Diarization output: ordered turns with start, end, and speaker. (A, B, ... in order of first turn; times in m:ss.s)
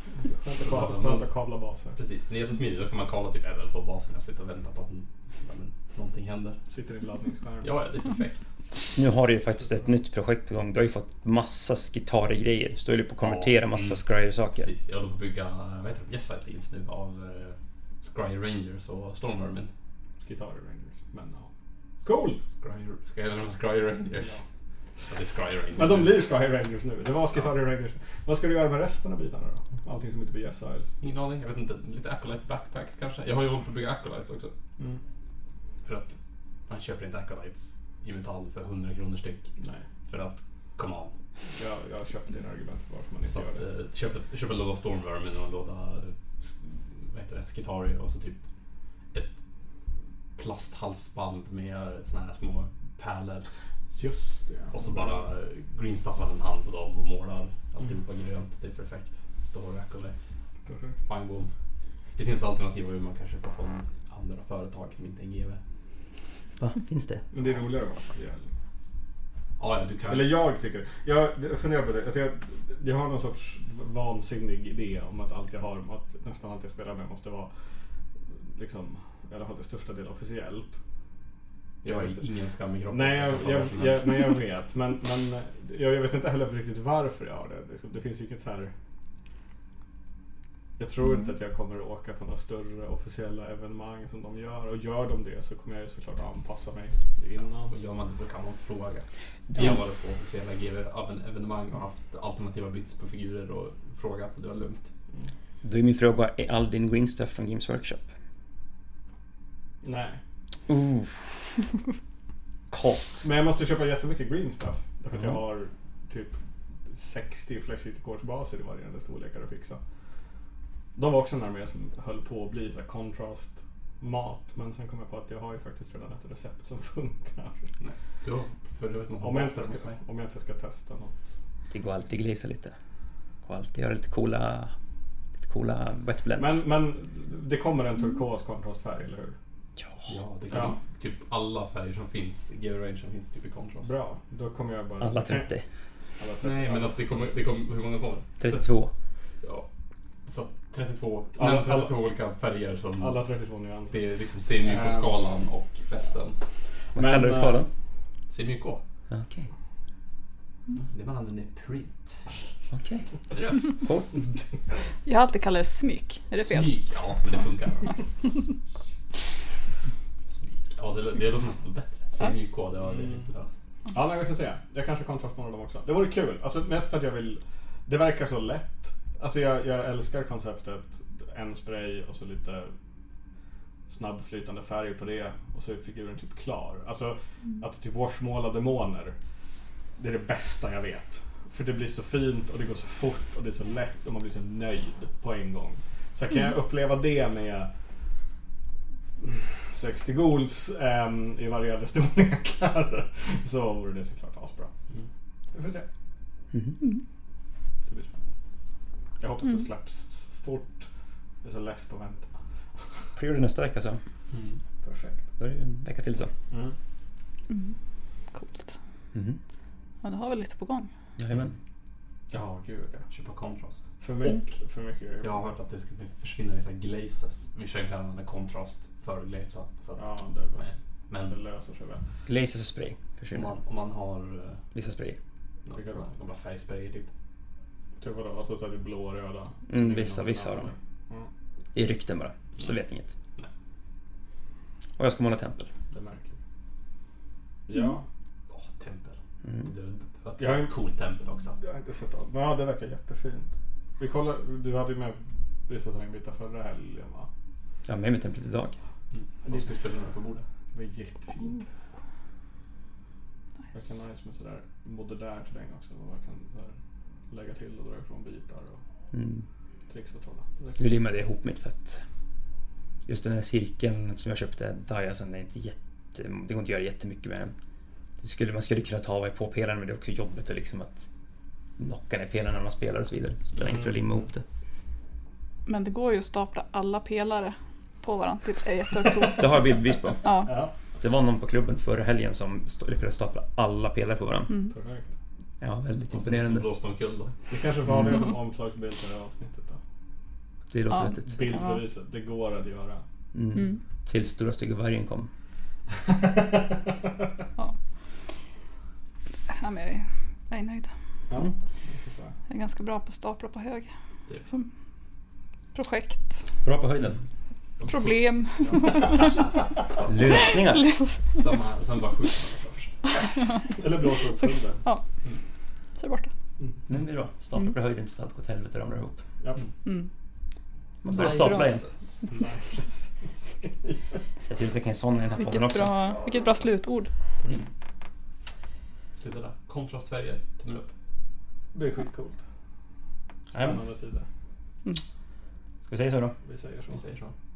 0:00.2-0:02.0 A
0:00.6-0:01.3 B
0:02.0-0:06.6 B
0:06.7-0:07.7 A
0:07.6-0:08.5 B
0:08.7-0:14.7 C
0:13.2-0:14.0 B
0:14.6-0:19.7 B
0:20.2-0:21.5 A
0:22.0-0:22.4 A
0:22.4-0:24.4 B
0:25.1-0:26.2 B
0:25.8-0:30.9 A
0:31.0-0:34.5 B
0:35.8-0:36.2 B
0:36.7-0:39.5 B
0:39.6-0:39.8 A
0:40.1-0:41.2 B
0:41.6-0:43.6 A
0:43.3-0:48.4 B
0:50.4-0:53.5 B
0:54.0-0:55.2 A
0:54.7-1:00.3 B
1:00.7-1:01.0 A
1:01.1-1:01.5 B
1:02.2-1:05.6 B
1:06.6-1:07.2 C
1:07.3-1:08.5 A
1:09.6-1:10.4 B
1:10.1-1:17.5 A
1:18.6-1:20.8 A
1:21.8-1:24.2 B
1:21.8-1:22.2 A
1:22.9-1:28.7 A
1:30.8-1:37.7 A
1:37.7-1:44.9 B
1:39.5-1:39.8 C
1:45.6-1:48.0 C
1:49.8-1:50.2 A
1:50.7-1:51.6 C
1:52.7-1:53.3 C
1:53.2-1:56.4 A
1:56.9-1:59.8 A
2:01.0-2:07.7 A
2:07.8-2:10.0 B
2:09.2-2:11.2 A
2:11.7-2:12.7 C
2:13.4-2:14.7 C
2:15.4-2:16.6 C
2:16.4-2:19.4 A
2:19.8-2:20.1 C
2:20.1-2:23.9 B
2:20.5-2:20.8 A
2:23.8-2:25.5 A
2:25.0-2:25.6 C
2:26.2-2:27.0 A
2:26.4-2:28.6 B
2:28.4-2:28.9 C
2:30.3-2:33.2 B
2:31.4-2:31.9 A
2:33.0-2:34.0 A
2:33.9-2:36.4 B
2:34.6-2:35.1 A
2:37.0-2:37.7 C
2:37.0-2:37.6 A
2:38.3-2:38.8 B
2:39.1-2:39.5 C
2:40.8-2:42.5 B
2:42.7-2:43.1 C
2:43.3-2:43.6 B
2:43.6-2:44.2 C
2:45.0-2:46.8 D
2:46.4-2:48.3 B
2:50.3-2:53.5 B
2:52.9-2:53.3 A
2:53.9-3:02.7 A
3:03.9-3:09.2 A
3:10.0-3:17.7 A
3:19.2-3:24.7 A
3:25.5-3:25.9 A
3:26.5-3:26.8 C
3:27.9-3:28.2 A
3:29.2-3:30.9 A
3:31.4-3:32.3 A
3:33.2-3:34.0 C
3:34.3-3:34.6 B
3:34.8-3:35.2 A
3:35.4-3:36.3 C
3:36.5-3:36.8 A
3:37.5-3:37.8 D
3:38.3-3:38.8 D
3:39.1-3:39.4 C
3:40.0-3:40.9 D
3:41.2-3:41.6 C
3:42.3-3:43.0 A
3:43.1-3:43.8 B
3:44.0-3:45.5 A
3:45.2-3:50.0 B
3:50.0-3:52.0 A
3:50.6-3:51.4 B
3:52.3-3:53.6 C
3:53.3-3:54.6 B
3:54.7-3:55.2 C
3:55.7-3:57.1 B
3:55.7-3:56.1 A
3:58.0-3:59.7 A
3:59.7-4:00.7 C
3:59.8-4:00.7 B
4:01.7-4:03.2 C
4:05.0-4:05.7 C
4:05.9-4:06.4 A
4:07.7-4:08.0 A
4:08.5-4:11.6 B
4:09.4-4:09.7 C
4:10.4-4:10.7 A
4:11.6-4:17.3 A
4:17.9-4:18.8 C
4:19.1-4:20.4 B
4:19.4-4:19.7 A
4:20.7-4:21.6 A
4:23.7-4:26.8 A
4:27.3-4:28.8 A
4:29.1-4:29.4 C
4:29.9-4:30.9 A
4:30.8-4:32.0 C
4:33.1-4:37.5 C
4:38.2-4:41.1 C
4:41.8-4:44.4 C
4:43.6-4:44.0 A
4:45.7-4:49.7 D
4:49.2-4:50.4 C
4:50.2-4:50.5 D
4:50.4-4:50.7 A
4:51.0-4:54.6 C
4:54.7-4:55.1 A
4:55.6-4:56.7 C
4:56.1-4:57.4 B
4:57.5-4:59.8 A
4:57.9-4:58.2 C
5:00.7-5:01.4 C
5:00.9-5:01.8 D
5:01.2-5:03.0 A
5:03.3-5:05.3 C
5:06.1-5:06.8 A
5:09.5-5:10.9 D
5:11.3-5:12.4 A
5:12.5-5:13.9 D
5:15.7-5:16.4 D
5:16.6-5:17.2 C
5:17.8-5:20.4 B
5:17.8-5:19.4 D
5:20.1-5:20.9 C
5:20.3-5:21.2 D
5:21.3-5:23.1 B
5:23.4-5:23.7 D
5:23.7-5:24.8 A
5:26.0-5:26.3 D
5:26.9-5:29.2 C
5:31.0-5:31.8 C
5:31.1-5:32.2 B
5:31.2-5:31.8 D
5:32.3-5:34.0 A
5:34.5-5:36.0 C
5:35.4-5:37.1 D
5:39.2-5:40.9 B
5:41.7-5:42.4 A
5:43.5-5:43.8 C
5:43.5-5:44.3 A
5:45.8-5:46.4 C
5:46.4-5:47.1 A
5:46.9-5:47.3 B